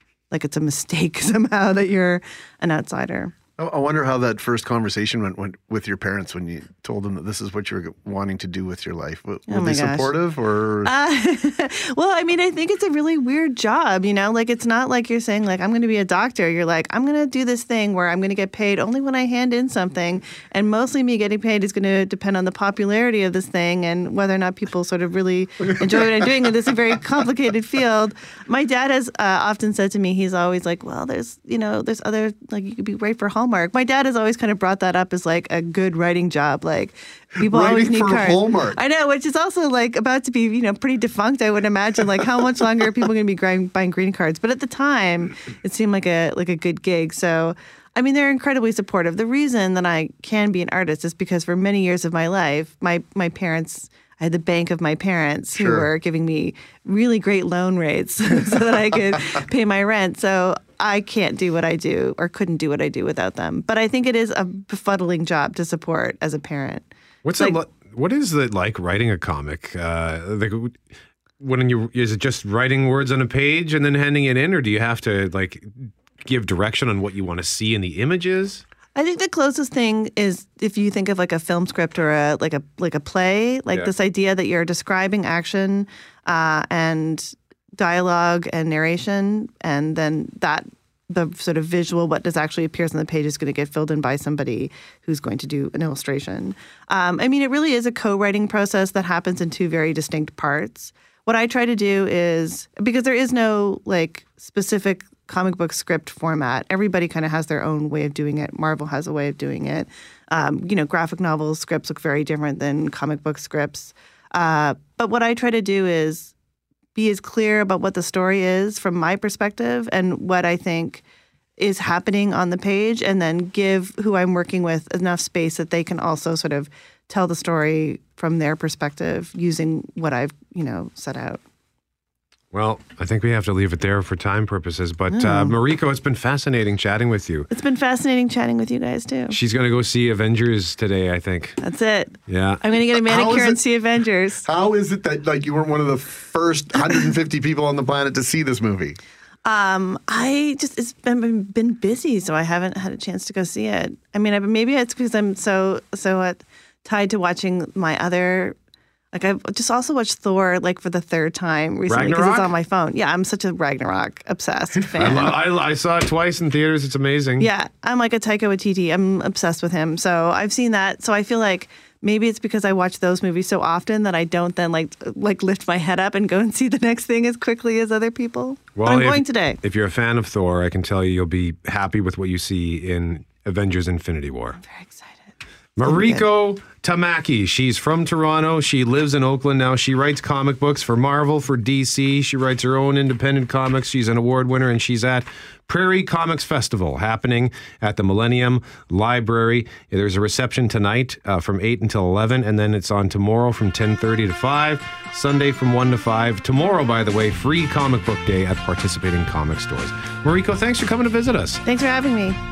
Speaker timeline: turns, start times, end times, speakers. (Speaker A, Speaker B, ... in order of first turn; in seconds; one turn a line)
Speaker A: 0.3-3.4
Speaker B: 3.6-10.9
Speaker A: 9.5-10.1
Speaker A: 10.8-67.6
Speaker B: 37.4-38.8
Speaker B: 55.6-55.9
Speaker C: 67.2-70.8
Speaker C: 71.4-78.6
Speaker A: 79.0-116.3
Speaker A: 117.0-121.0
Speaker A: 121.6-131.4
Speaker C: 132.5-137.5
Speaker A: 135.1-135.6
Speaker A: 137.5-139.4
Speaker C: 139.3-141.6
Speaker A: 141.6-144.4
Speaker C: 142.3-142.6
Speaker B: 143.1-143.6
Speaker B: 144.4-149.0
Speaker A: 149.4-158.6
Speaker A: 159.1-165.3
Speaker C: 161.9-162.5
Speaker C: 165.0-167.5
Speaker A: 167.4-179.6
Speaker C: 178.8-184.6
Speaker A: 184.6-185.3
Speaker C: 185.8-211.6
Speaker A: 185.9-186.2
Speaker A: 211.7-212.4